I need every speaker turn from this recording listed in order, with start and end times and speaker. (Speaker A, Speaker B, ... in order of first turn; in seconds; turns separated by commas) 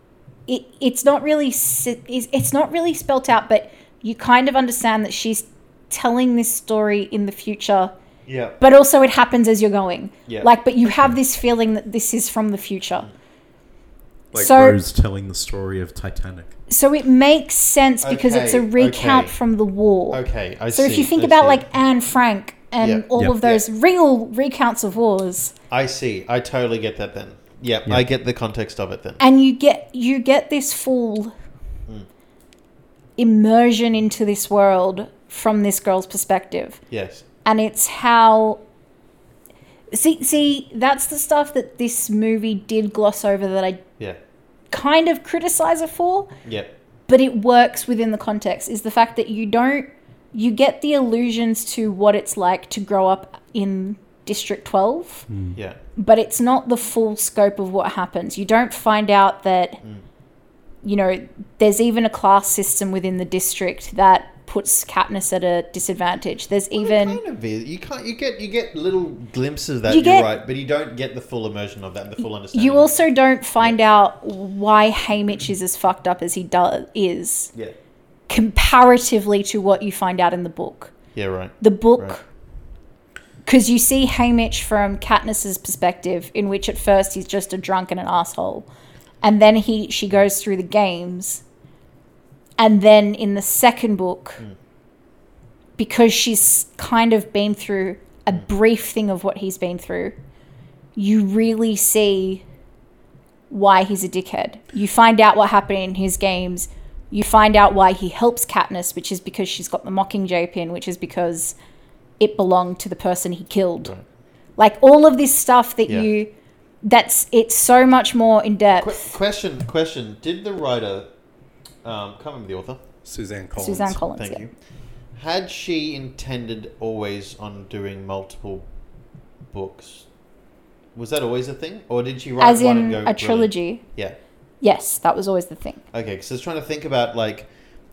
Speaker A: 0.5-7.9, Speaker B: 8.2-8.6, Speaker A: 8.6-13.1, Speaker C: 14.3-16.5, Speaker A: 14.3-14.8, Speaker A: 16.7-25.5, Speaker B: 18.0-19.3, Speaker B: 20.1-21.6, Speaker B: 22.8-23.6, Speaker B: 25.7-29.2, Speaker A: 29.2-31.3, Speaker A: 33.2-36.8, Speaker B: 36.9-37.2, Speaker A: 37.4-38.6, Speaker A: 39.9-43.8, Speaker A: 44.7-46.3, Speaker B: 46.4-46.7, Speaker A: 47.1-55.2, Speaker C: 55.3-55.5, Speaker A: 56.0-59.8, Speaker A: 60.8-67.2, Speaker B: 66.7-72.9, Speaker A: 69.9-70.3, Speaker A: 72.5-77.5, Speaker A: 78.3-80.9, Speaker B: 81.1-82.2, Speaker A: 81.6-82.2, Speaker A: 83.5-88.7, Speaker A: 89.2-91.4, Speaker A: 92.6-94.4, Speaker A: 95.8-100.2, Speaker A: 101.0-102.4, Speaker A: 103.5-111.5, Speaker A: 112.2-113.9, Speaker A: 114.6-116.3, Speaker A: 116.8-119.1, Speaker B: 118.8-121.1, Speaker B: 121.8-122.8, Speaker C: 123.0-124.0, Speaker A: 123.5-124.5, Speaker B: 124.2-124.5, Speaker B: 125.2-128.7, Speaker B: 129.5-130.1, Speaker B: 130.9-134.2, Speaker A: 132.4-133.8, Speaker A: 134.6-135.8, Speaker B: 135.9-137.5